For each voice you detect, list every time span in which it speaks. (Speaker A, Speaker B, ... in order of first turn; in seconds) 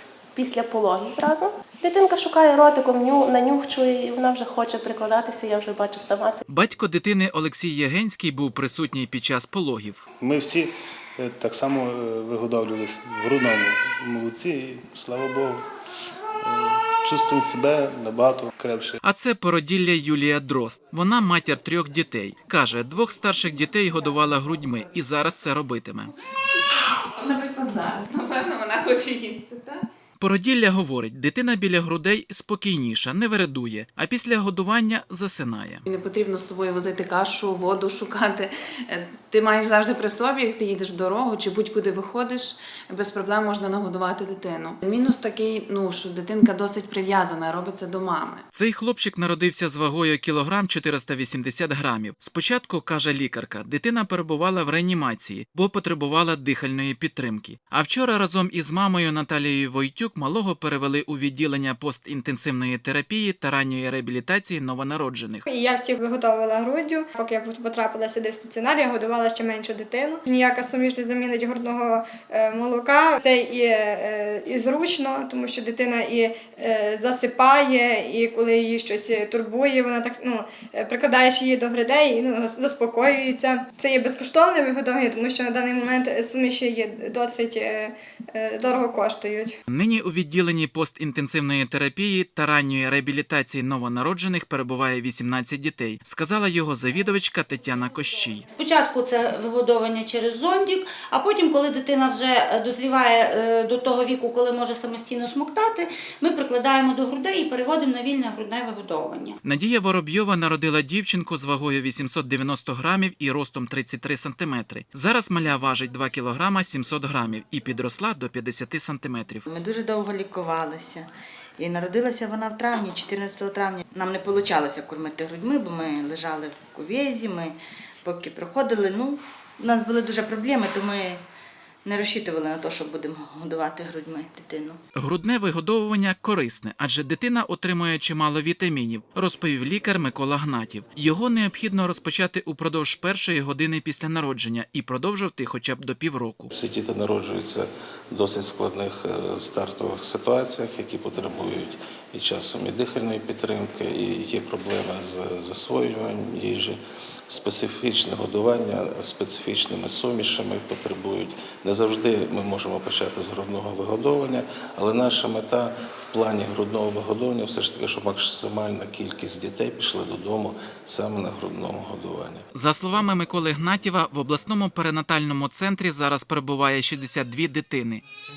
Speaker A: 0.4-6.4
Speaker B: 6.5-10.0, 19.0-26.1, 30.2-35.8, 48.5-65.5, 89.7-98.4, 109.4-119.5, 135.0-146.5, 172.5-178.0
Speaker C: 10.2-15.6, 16.4-19.0
Speaker D: 26.6-29.8, 35.9-48.4
Speaker E: 65.5-89.5
Speaker F: 98.5-109.4
Speaker G: 119.5-121.1, 121.6-131.2, 131.8-134.8
Speaker H: 146.5-172.4